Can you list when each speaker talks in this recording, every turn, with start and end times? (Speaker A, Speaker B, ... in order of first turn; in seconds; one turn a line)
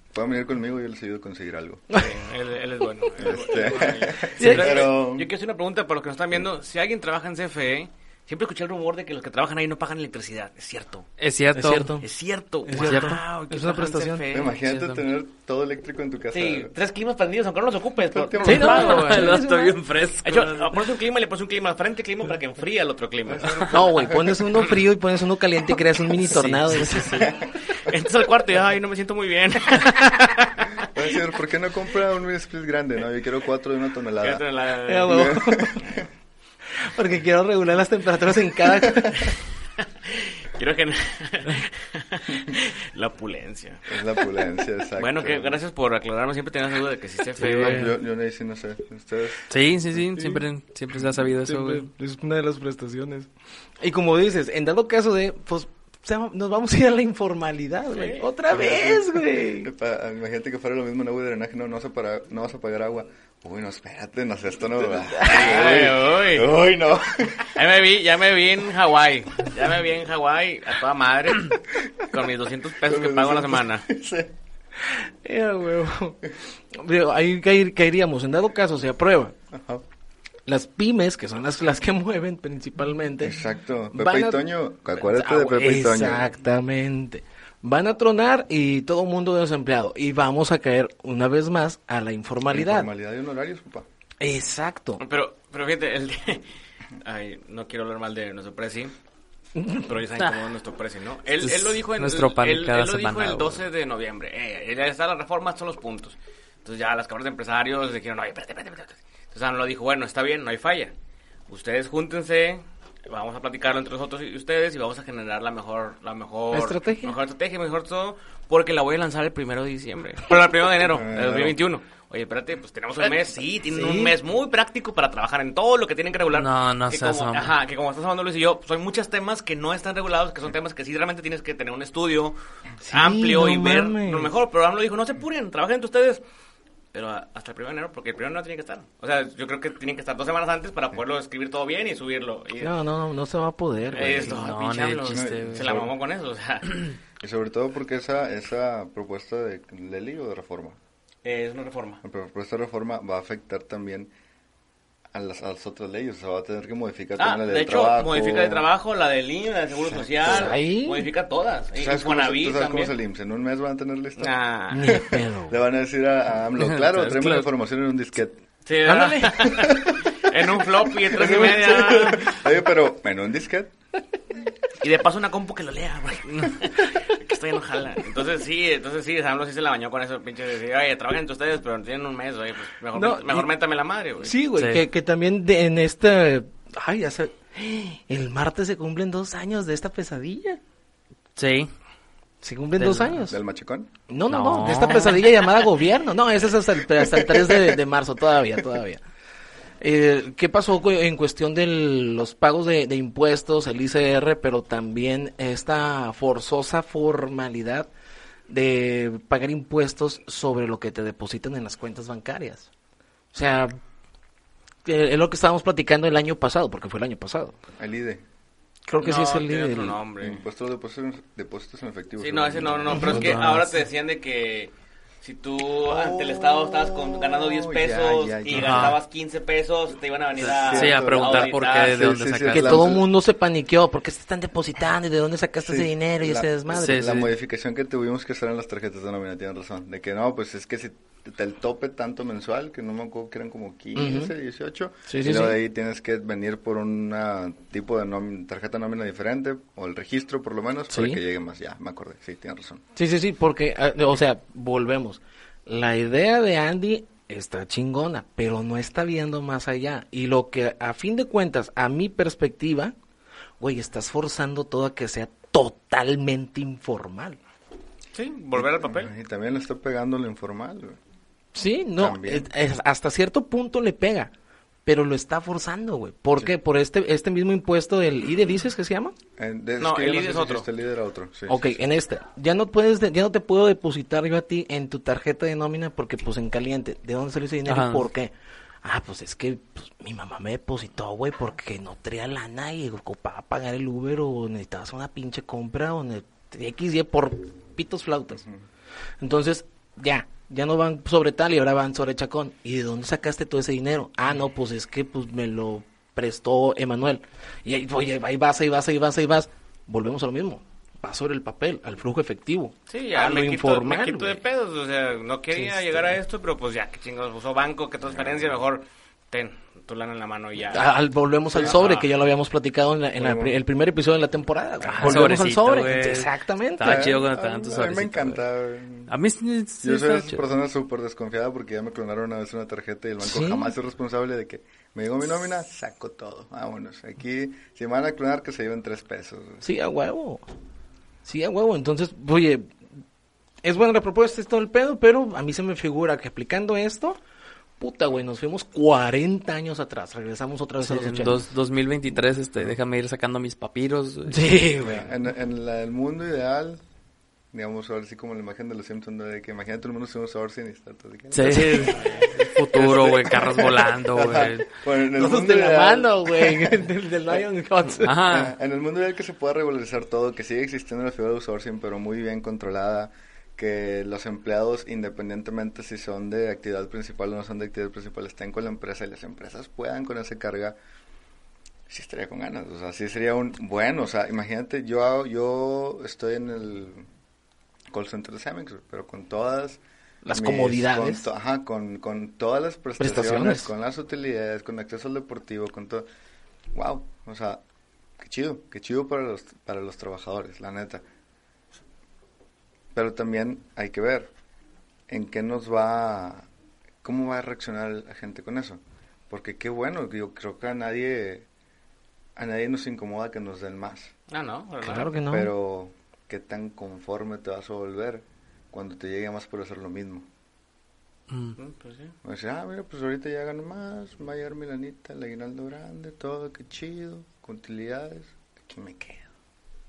Speaker A: 0.1-1.9
Speaker B: 1.9-11.1
Speaker A: 3.2-5.3
Speaker C: 4.4-4.7
Speaker D: 4.4-4.7
Speaker D: 11.2-11.9
Speaker C: 11.5-12.1
Speaker B: 12.0-14.7
Speaker C: 12.7-14.2
Speaker D: 12.8-13.2
Speaker A: 14.3-16.7
Speaker B: 16.3-19.4
Speaker A: 18.1-19.1
Speaker C: 18.4-19.8
Speaker D: 18.4-20.8
Speaker B: 20.2-23.8
Speaker A: 23.2-24.4
Speaker C: 23.7-27.3
Speaker D: 26.2-27.3
Speaker A: 27.2-27.5
Speaker B: 27.7-30.9
Speaker A: 30.8-34.4
Speaker B: 34.2-35.3
Speaker C: 34.9-35.9
Speaker A: 35.0-36.0
Speaker C: 36.8-39.3
Speaker B: 39.8-44.0
Speaker A: 43.9-45.6
Speaker B: 45.0-47.9
Speaker A: 47.4-51.2
Speaker C: 47.6-47.9
Speaker D: 49.5-51.9
Speaker C: 51.4-59.7
Speaker B: 57.9-58.2
Speaker A: 58.5-67.5
Speaker C: 65.0-65.6
Speaker B: 65.2-66.5
Speaker B: 67.4-73.8
Speaker A: 72.8-74.3
Speaker C: 74.8-79.3
Speaker A: 79.5-79.8
Speaker C: 80.5-83.4
Speaker A: 83.2-86.2
Speaker C: 83.9-84.5
Speaker C: 85.0-92.9
Speaker A: 92.5-93.8
Speaker C: 94.2-95.0
Speaker B: 95.0-96.5
Speaker B: 97.0-98.9
Speaker C: 99.5-99.9
Speaker B: 99.8-110.9
Speaker D: 101.4-103.6
Speaker B: 111.5-136.2
Speaker C: 116.5-117.2
Speaker A: 120.8-121.5
Speaker C: 123.7-124.2
Speaker D: 126.3-127.5
Speaker C: 132.8-134.3
Speaker B: 136.9-142.7
Speaker C: 142.6-144.5
Speaker B: 143.9-146.9
Speaker D: 144.3-145.7
Speaker A: 145.1-145.9
Speaker A: 147.2-150.8
Speaker B: 151.2-152.0
Speaker A: 152.0-154.1
Speaker A: 155.1-158.7
Speaker B: 157.2-162.9
Speaker A: 160.2-160.5
Speaker C: 160.2-161.1
Speaker A: 161.7-168.4
Speaker B: 164.2-165.1
Speaker C: 164.7-165.6
Speaker D: 166.6-167.5
Speaker B: 168.7-172.4
Speaker C: 168.9-169.2
Speaker A: 169.2-173.7
Speaker B: 174.8-184.3
Speaker C: 182.9-183.5
Speaker C: 184.2-190.6
Speaker D: 184.6-184.8
Speaker D: 191.3-191.7
Speaker C: 192.4-193.4
Speaker D: 192.8-193.2
Speaker A: 193.3-193.9
Speaker C: 194.1-199.0
Speaker D: 194.3-195.2
Speaker A: 196.9-197.8
Speaker C: 199.8-207.9
Speaker C: 208.5-212.7
Speaker C: 213.3-213.8
Speaker C: 214.8-217.6
Speaker A: 217.8-218.2
Speaker C: 218.9-220.0
Speaker B: 219.0-220.4
Speaker A: 220.2-223.3
Speaker B: 222.2-232.2
Speaker C: 222.9-223.4
Speaker D: 223.1-223.7
Speaker A: 225.9-229.0
Speaker D: 228.5-229.0
Speaker D: 230.4-232.9
Speaker A: 230.4-233.0
Speaker C: 232.5-237.2
Speaker A: 235.6-252.8
Speaker D: 236.7-237.3
Speaker C: 243.9-244.3
Speaker C: 245.1-245.6
Speaker C: 250.9-251.2
Speaker C: 252.9-262.9
Speaker C: 263.6-267.4
Speaker B: 268.1-269.1
Speaker A: 268.6-271.0
Speaker C: 271.5-274.3
Speaker A: 272.0-272.5
Speaker C: 274.9-279.1
Speaker A: 279.4-281.8
Speaker B: 279.8-280.7
Speaker C: 281.5-298.4
Speaker D: 287.6-288.1
Speaker C: 299.2-314.4
Speaker B: 312.9-320.9
Speaker C: 315.6-316.1
Speaker C: 320.7-327.1
Speaker A: 321.5-321.8
Speaker B: 321.5-322.1
Speaker A: 323.2-323.6
Speaker D: 324.8-328.4
Speaker A: 326.8-329.1
Speaker D: 329.1-330.4
Speaker A: 329.8-339.6
Speaker C: 333.2-333.7
Speaker C: 339.6-340.4
Speaker C: 341.2-342.7
Speaker C: 343.6-347.2
Speaker C: 347.8-351.4
Speaker D: 350.8-354.6
Speaker C: 354.3-355.1
Speaker A: 354.8-356.8
Speaker A: 357.5-367.4
Speaker D: 361.3-364.6
Speaker C: 361.4-361.9
Speaker C: 365.1-368.2
Speaker D: 368.0-368.5
Speaker A: 368.2-380.8
Speaker A: 381.9-387.0
Speaker A: 387.9-389.8
Speaker C: 390.2-391.2
Speaker A: 390.3-396.1
Speaker C: 393.0-393.7
Speaker A: 396.7-397.6
Speaker A: 398.2-401.0
Speaker A: 402.9-404.3
Speaker A: 405.1-406.5
Speaker A: 407.0-411.5
Speaker A: 412.4-414.1
Speaker B: 414.3-415.1
Speaker C: 414.8-415.5
Speaker A: 415.3-420.2
Speaker D: 421.3-421.6
Speaker B: 421.6-422.1
Speaker A: 422.2-429.3